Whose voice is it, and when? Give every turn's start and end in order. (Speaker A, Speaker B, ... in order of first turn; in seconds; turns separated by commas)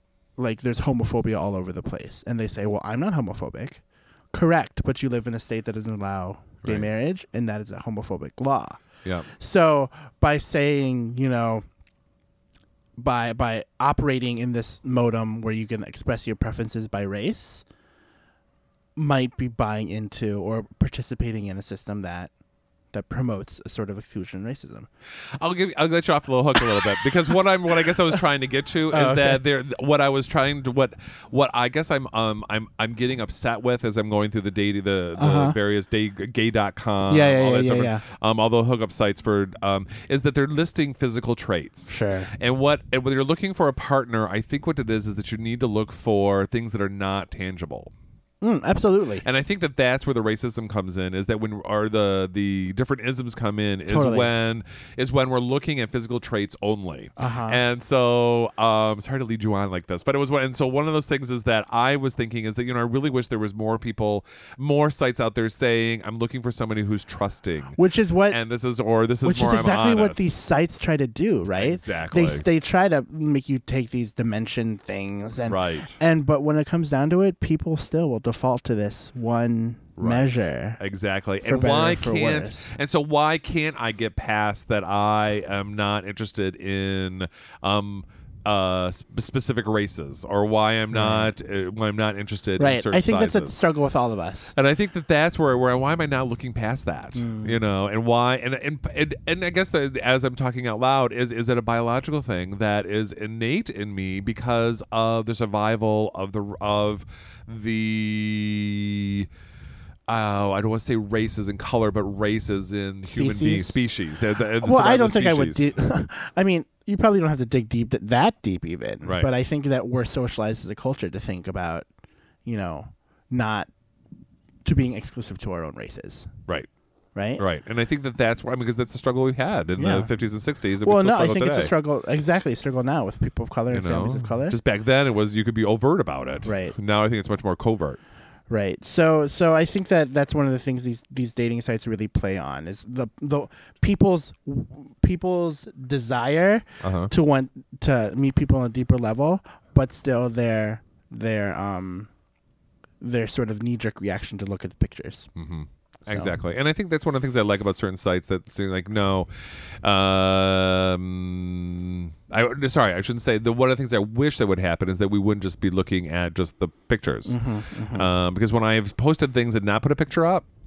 Speaker A: 0.4-3.8, Speaker A: 4.3-8.8, Speaker B: 6.6-6.9, Speaker A: 9.4-11.6, Speaker A: 13.0-17.6, Speaker A: 18.9-22.3, Speaker A: 22.9-24.9, Speaker B: 25.4-47.9, Speaker A: 28.9-29.4, Speaker A: 35.1-35.6, Speaker A: 37.1-38.0, Speaker A: 41.9-42.3, Speaker A: 48.4-49.2, Speaker B: 49.2-70.2, Speaker A: 53.9-54.3, Speaker A: 57.2-57.6, Speaker A: 67.8-68.4, Speaker A: 69.2-80.8, Speaker B: 71.5-72.4, Speaker B: 75.5-76.0, Speaker B: 80.0-93.5, Speaker A: 81.4-82.7, Speaker A: 90.9-91.3, Speaker A: 92.6-94.5, Speaker B: 94.5-109.3, Speaker A: 97.2-97.6, Speaker B: 110.1-115.8, Speaker A: 113.0-113.8, Speaker A: 114.6-121.8, Speaker B: 119.0-119.3, Speaker A: 122.4-123.7, Speaker A: 124.6-126.3, Speaker A: 127.1-127.4, Speaker B: 127.4-131.7, Speaker A: 129.8-130.1, Speaker A: 130.8-134.6, Speaker B: 133.7-138.0, Speaker A: 136.4-136.7, Speaker A: 138.5-152.1, Speaker B: 146.8-147.1, Speaker A: 153.0-155.3, Speaker B: 155.3-159.3, Speaker A: 156.1-156.4, Speaker B: 159.8-167.4, Speaker A: 167.2-168.1, Speaker B: 167.9-170.4